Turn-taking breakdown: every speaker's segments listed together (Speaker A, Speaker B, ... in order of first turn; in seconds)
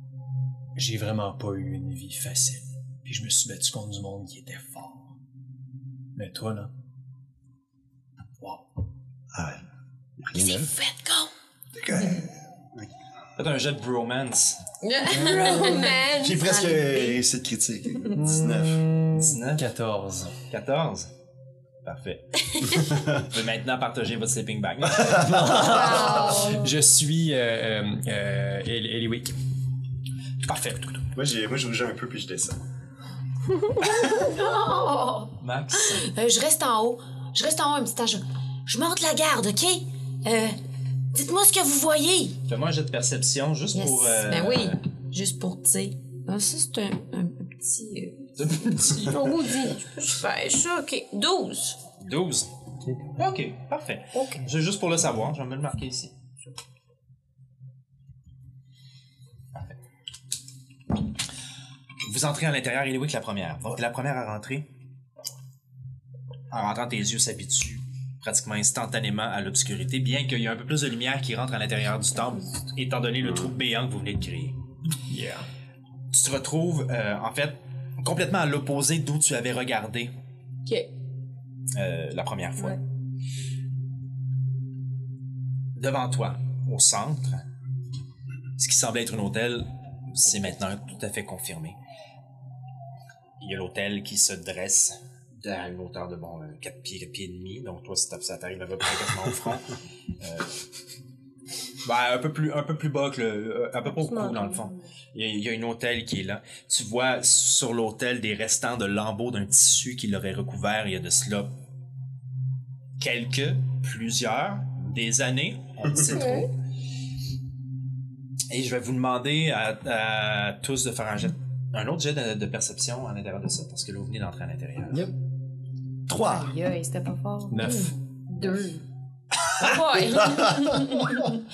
Speaker A: 0.7-5.1, 6.1-6.7, 18.1-20.4, 25.1-29.3, 75.1-75.5, 124.9-125.1, 127.5-127.9
Speaker B: 9.3-9.6, 10.2-10.7, 11.8-12.9, 16.2-18.8, 25.0-26.0, 31.1-32.6, 126.1-126.5, 130.3-130.7
Speaker C: 10.3-11.3, 14.8-16.1, 22.5-22.9, 33.8-40.6, 41.1-42.4, 43.7-48.3, 49.9-51.8, 127.6-127.9, 129.6-131.2
Speaker D: 13.4-14.6, 19.1-19.6, 20.4-21.1, 21.8-25.3, 30.4-31.1, 35.4-36.1, 42.5-44.8, 48.4-49.2, 52.0-52.5, 53.2-56.1, 62.0-64.6, 66.5-74.5, 76.1-80.1, 81.7-82.8, 85.7-87.4, 88.6-91.8, 93.4-100.5, 101.8-111.5, 113.0-116.5, 118.5-125.0, 129.5-130.4
Speaker E: 15.1-17.0, 25.6-26.7, 49.0-49.9, 103.8-104.9, 116.0-116.5, 126.1-128.8